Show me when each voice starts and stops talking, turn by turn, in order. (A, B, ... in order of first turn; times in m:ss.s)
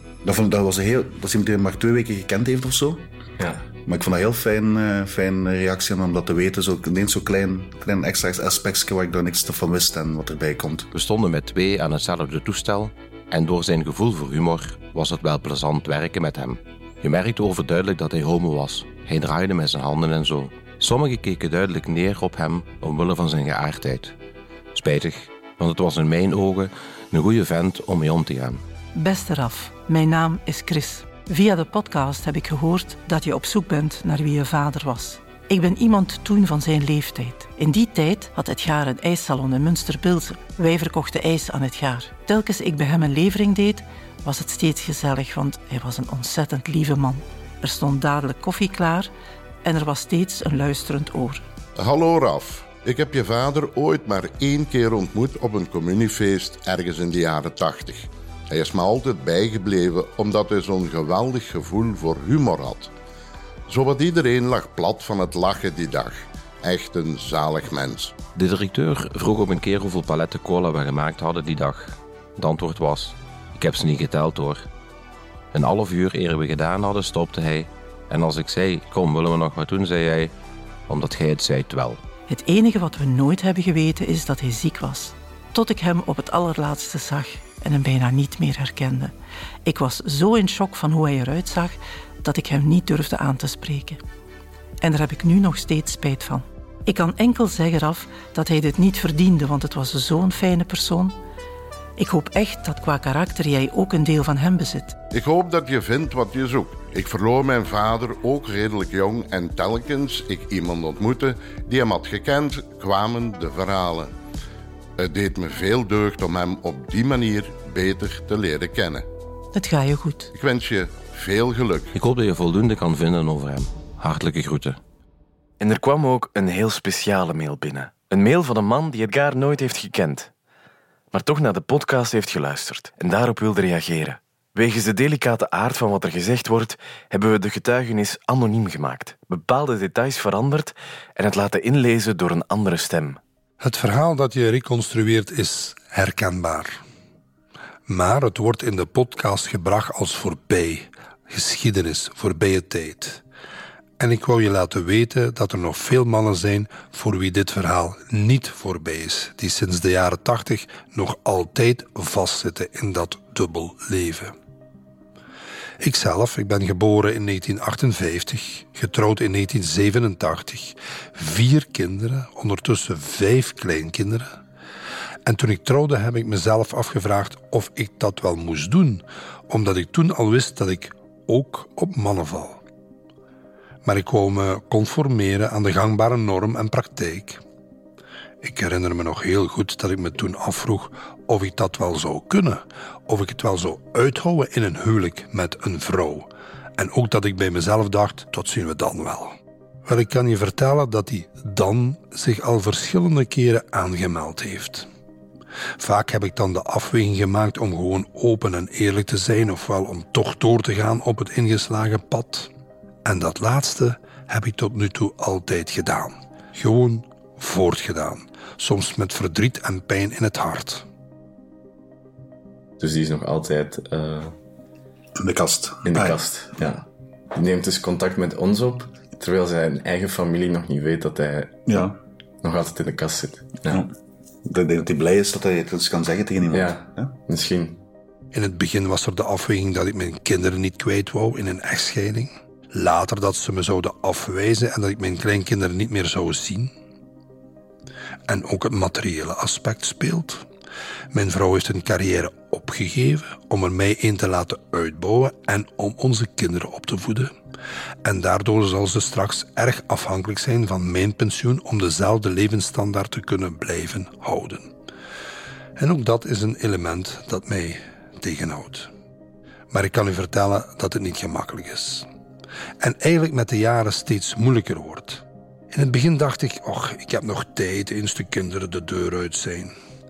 0:00.2-0:03.1 A
0:03.4-0:03.6 B
0:03.8-0:10.9 A
0:10.9-0:24.1 C
0:24.7-0:28.6 C
0:28.9-0:49.1 D
0:49.6-0:51.4 D
0:51.8-1:02.9 E
1:03.7-1:08.2 E
1:08.3-1:14.7 C
1:15.5-1:20.3 C
1:20.9-1:22.0 C
1:22.3-1:29.1 D
1:29.6-1:34.0 D
1:34.8-1:41.2 D
1:42.0-1:45.0 D
1:45.1-1:54.1 E
1:55.0-1:59.0 E
1:59.5-2:00.3 D
2:00.3-2:01.9 E
2:01.9-2:04.8 C
2:05.6-2:10.3 F
2:11.1-2:23.2 F
2:23.6-2:26.8 G
2:27.9-2:33.2 G
2:34.0-2:44.3 G
2:45.8-2:54.4 G
2:55.2-3:02.6 G
3:03.8-3:07.4 G
3:08.4-3:19.3 G
3:19.8-3:24.9 G
3:25.8-3:32.5 G
3:33.0-3:40.8 G
3:42.8-3:44.3 B
3:45.2-3:46.2 A
3:45.8-3:51.9 B
3:51.7-3:52.0 A
3:52.4-3:53.8 B
3:54.4-3:57.1 A
3:56.5-3:57.8 B
3:58.3-4:06.7 G
4:08.3-4:10.4 G
4:11.1-4:17.3 G
4:18.0-4:24.7 G
4:25.8-4:28.9 G
4:29.7-4:32.0 G
4:32.8-4:39.7 G